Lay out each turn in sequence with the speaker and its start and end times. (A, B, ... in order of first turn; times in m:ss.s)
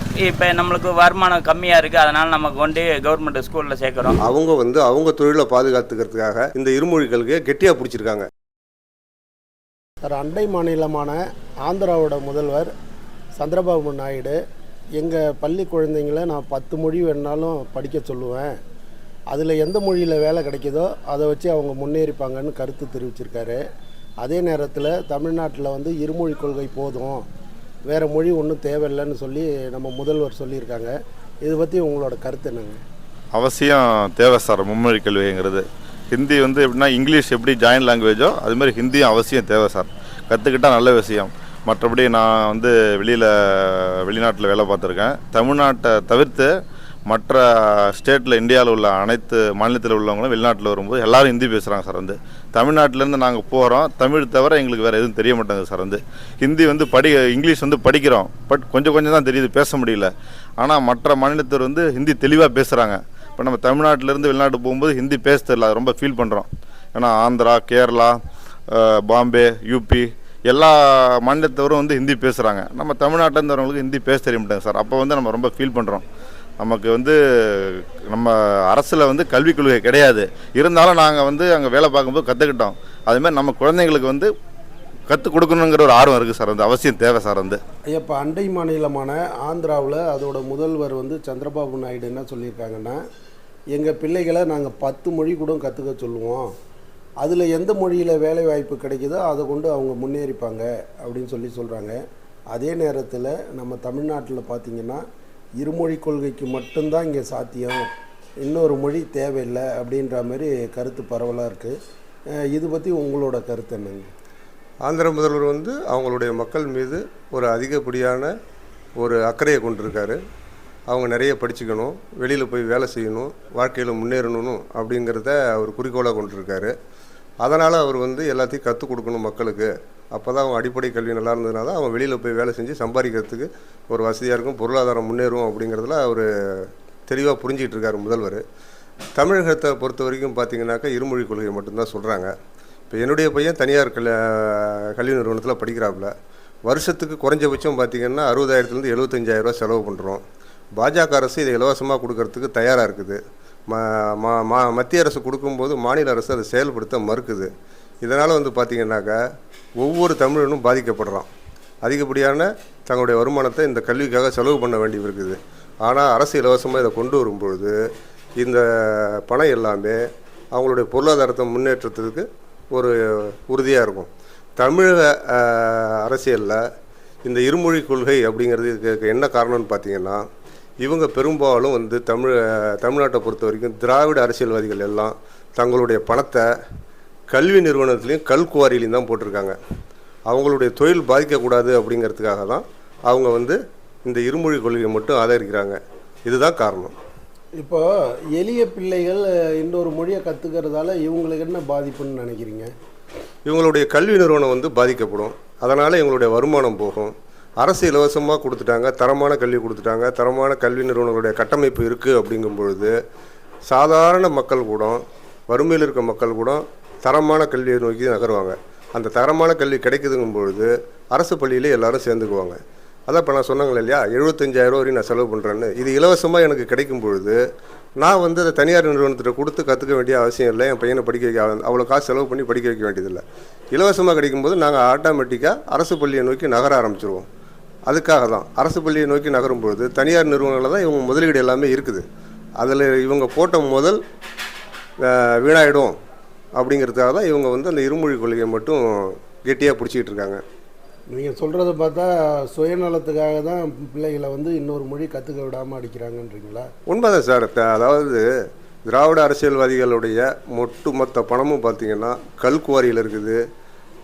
0:00.2-0:04.2 A
0:04.2-0:08.3 B
0:10.0-0:12.7 C
0:13.4-0:14.4 C
0:15.0-0:18.5 C
0:19.3-0:23.6 C
0:24.2-0:27.2 C
0:27.9-0:30.9 C
0:31.4-0:32.8 C
0:33.3-0:46.5 D
0:47.1-1:08.2 D
1:08.7-1:16.0 D
1:16.6-1:24.3 D
1:25.1-1:27.6 D
1:27.9-1:33.0 C
1:33.7-1:36.5 C
1:37.2-1:42.0 C
1:42.5-1:45.0 C
1:45.6-1:47.9 C
1:48.4-1:51.8 C
1:52.4-1:54.1 C
1:54.8-1:58.3 B
1:59.0-2:00.2 B
2:00.9-2:06.7 B
2:07.4-2:18.4 B
2:19.2-2:22.3 B
2:22.9-2:26.1 B
2:26.7-2:30.2 B
2:30.8-2:37.5 B
2:38.0-2:39.2 B
2:39.8-2:41.3 B
2:41.8-2:47.8 B
2:48.4-2:50.0 B
2:50.5-2:52.9 B
2:53.4-2:56.6 B
2:57.2-3:00.2 B
3:00.8-3:06.5 B
3:07.3-3:09.6 B
3:10.3-3:16.9 B
3:17.6-3:22.7 C
3:23.5-3:32.9 B
3:33.7-3:47.4 B
3:48.0-3:53.2 B
3:53.7-3:57.3 B
3:57.9-4:02.0 B
4:02.6-4:04.0 B
4:05.0-4:06.0 B
4:06.6-4:10.4 B
4:11.1-4:16.7 C
4:16.9-4:18.3 B
4:18.9-4:23.4 B